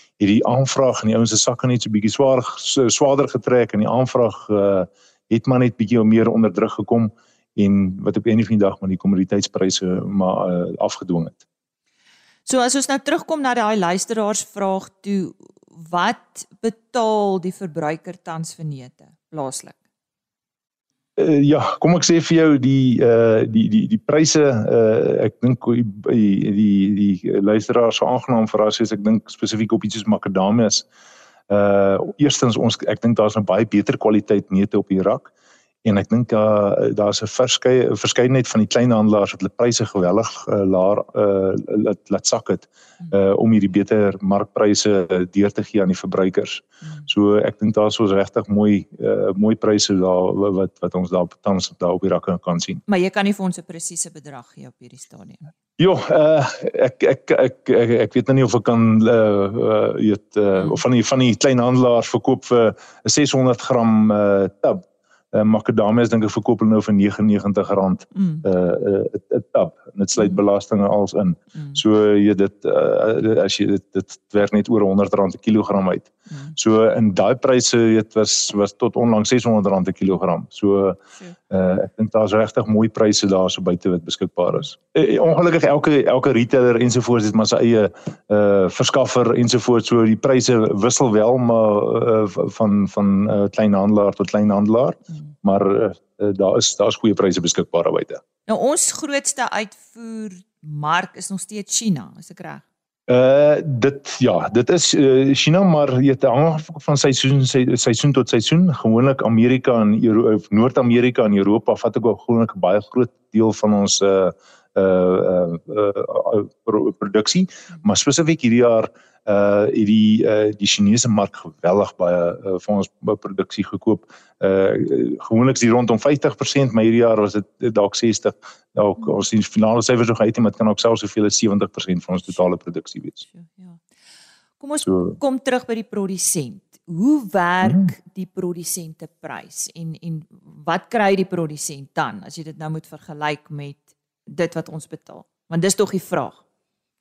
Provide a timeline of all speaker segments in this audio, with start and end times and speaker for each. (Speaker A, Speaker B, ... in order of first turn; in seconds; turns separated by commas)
Speaker A: 0.2-11.4, Speaker B: 12.5-19.8, Speaker A: 21.2-30.9, Speaker A: 31.5-35.3, Speaker A: 35.8-52.8, Speaker B: 52.9-55.5, Speaker A: 55.8-81.0, Speaker A: 81.5-98.2, Speaker B: 98.5-102.6, Speaker A: 103.1-133.2, Speaker B: 133.3-133.8, Speaker B: 134.6-146.4